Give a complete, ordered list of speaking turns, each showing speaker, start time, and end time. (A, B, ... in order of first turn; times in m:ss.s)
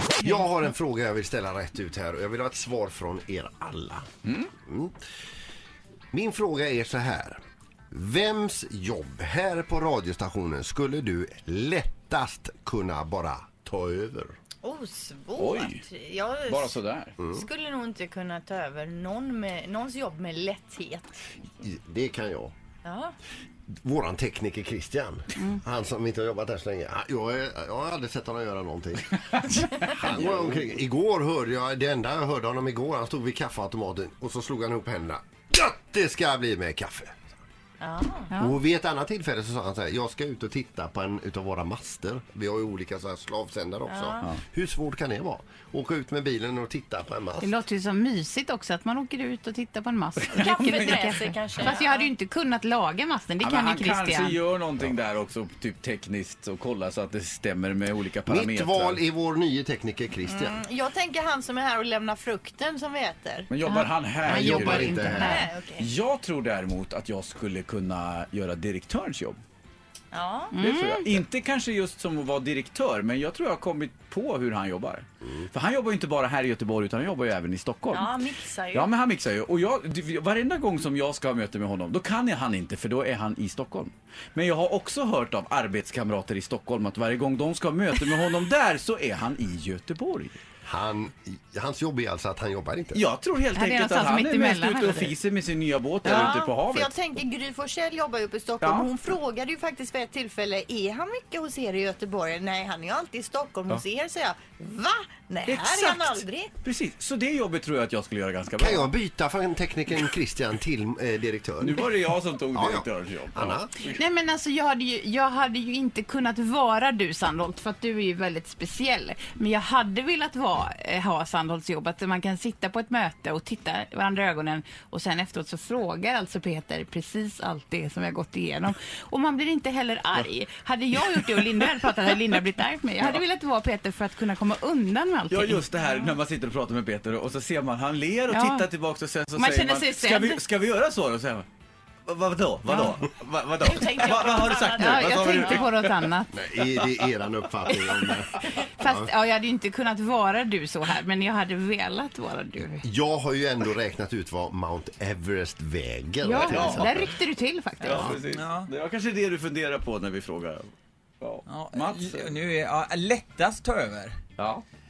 0:00.2-0:04.0 A
0:04.6-0:04.9 A
0:06.1-0:07.4 A
0:07.9-0:14.4 A
0:14.6-0:21.1 B
0:15.4-0:15.8 C
0:16.4-0:17.2 C
0:17.2-0:17.4 A
0:21.6-0:22.5 A
0:22.8-0:23.1 B
0:23.8-0:37.4 A
0:29.4-0:30.6 C
0:37.8-0:38.3 B
0:38.3-0:38.6 D
0:38.4-0:47.5 A
0:43.8-0:44.3 B
0:47.4-0:54.4 D
0:50.3-0:52.1 B
0:50.6-0:50.9 C
0:53.4-0:59.0 C
0:58.3-1:00.6 A
1:00.3-1:03.5 B
1:03.5-1:09.4 C
1:04.2-1:05.5 A
1:04.3-1:05.9 B
1:04.4-1:05.1 D
1:10.1-1:10.5 B
1:10.5-1:11.2 D
1:10.6-1:18.2 C
1:17.9-1:18.9 B
1:18.7-1:30.4 C
1:30.6-1:33.0 A
1:32.9-1:36.9 C
1:33.5-1:35.1 D
1:36.0-1:46.5 B
1:38.6-1:38.9 C
1:45.4-1:48.9 C
1:48.6-1:51.8 A
1:51.6-1:54.0 C
1:52.5-1:53.7 A
1:53.9-2:15.6 D
2:15.3-2:21.4 C
2:18.3-2:18.6 D
2:19.3-2:20.4 D
2:22.0-2:25.9 C
2:23.6-2:25.6 B
2:24.7-2:26.3 D
2:26.3-2:29.1 A
2:27.6-2:28.1 C
2:28.6-2:32.8 D
2:32.8-2:37.1 A
2:36.2-2:38.2 D
2:36.3-2:37.0 C
2:37.8-2:40.7 C
2:37.9-2:38.7 E
2:41.2-2:42.4 C
2:41.5-2:44.2 E
2:44.4-2:44.6 C